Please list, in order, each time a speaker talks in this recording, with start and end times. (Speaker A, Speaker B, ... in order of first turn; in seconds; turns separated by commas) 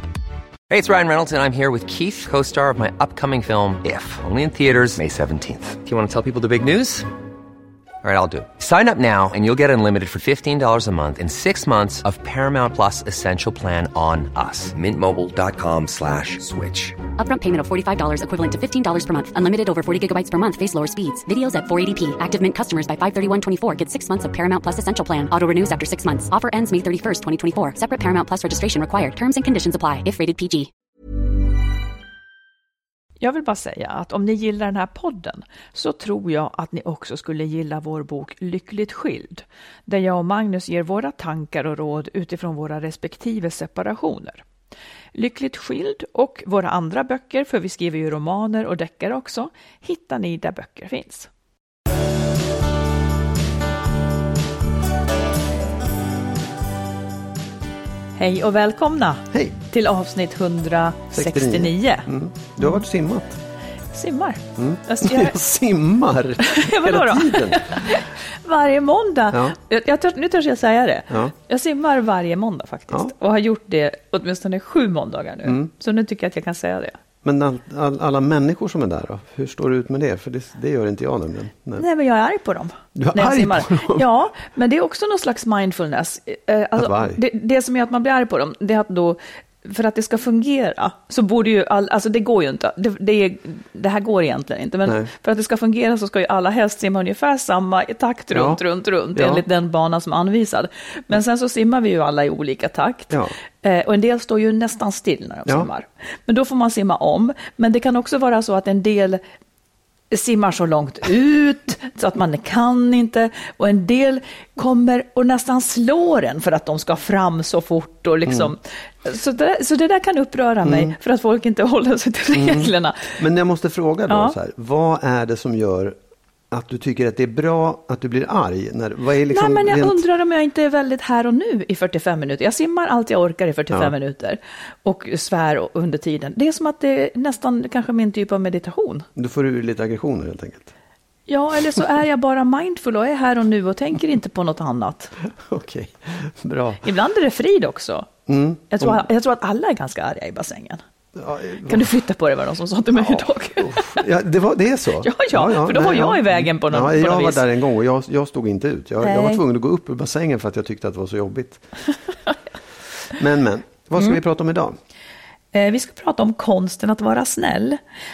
Speaker A: 0.7-7.1, Speaker A: 8.0-17.0, Speaker B: 17.1-30.7, Speaker C: 33.2-44.4, Speaker C: 45.1-51.3, Speaker C: 58.2-62.1, Speaker D: 61.1-63.4, Speaker C: 63.9-65.3, Speaker D: 64.6-68.0, Speaker C: 66.4-77.0, Speaker D: 69.3-69.5, Speaker D: 75.4-75.7, Speaker D: 77.2-81.8, Speaker C: 81.8-109.2, Speaker D: 83.0-84.1, Speaker D: 86.8-87.2, Speaker D: 98.3-98.6, Speaker D: 99.1-99.4, Speaker C: 110.1-123.2, Speaker D: 118.2-118.5, Speaker D: 120.6-120.9, Speaker D: 122.3-126.0, Speaker C: 124.1-124.3, Speaker D: 126.5-130.0, Speaker C: 129.3-139.1, Speaker D: 139.2-140.7, Speaker C: 141.3-145.1, Speaker D: 145.3-146.8, Speaker C: 146.8-148.1, Speaker D: 148.3-149.0, Speaker C: 148.7-150.8, Speaker D: 151.1-151.9, Speaker C: 151.6-154.0, Speaker D: 153.0-161.6, Speaker C: 155.0-157.4, Speaker C: 159.0-159.4, Speaker D: 163.1-164.8, Speaker C: 165.5-167.8